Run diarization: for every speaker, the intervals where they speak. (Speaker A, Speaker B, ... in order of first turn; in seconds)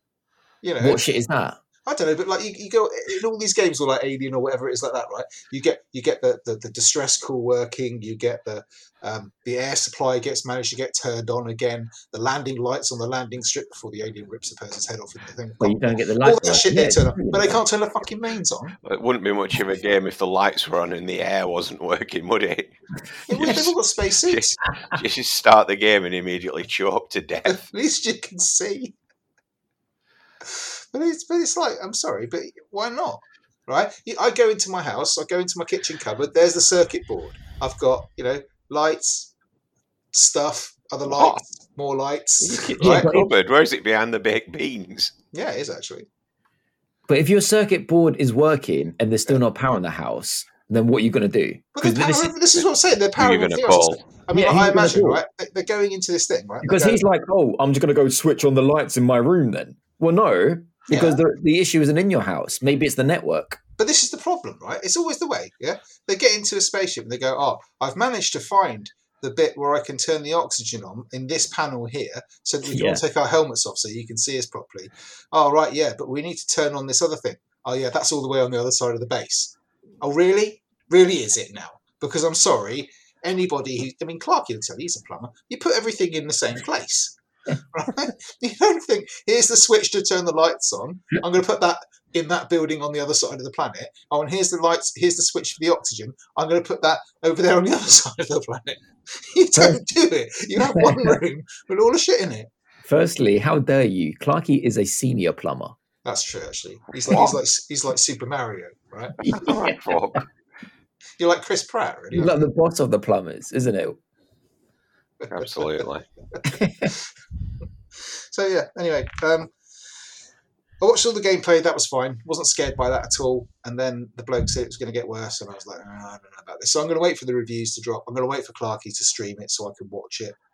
Speaker A: 0.6-1.1, 1.9-18.8, 23.3-24.6, 27.4-28.9, 30.4-39.3, 40.1-43.1, 45.3-46.1, 51.7-57.0, 60.9-61.2, 63.8-102.5, 106.0-109.3, 111.2-112.4, 115.2-117.0, 118.0-119.5, 120.8-130.4
Speaker B: 0.8-1.6, 15.6-17.6, 42.8-43.3, 47.1-52.3, 54.3-55.2, 56.6-63.6, 72.6-73.0, 99.5-99.8, 100.6-101.2, 102.8-105.7, 109.2-110.2, 112.1-114.0, 116.5-116.9
Speaker C: 18.8-22.7, 23.3-27.6, 41.1-41.4, 42.4-45.1, 53.2-54.0, 109.4-110.2, 115.3-116.0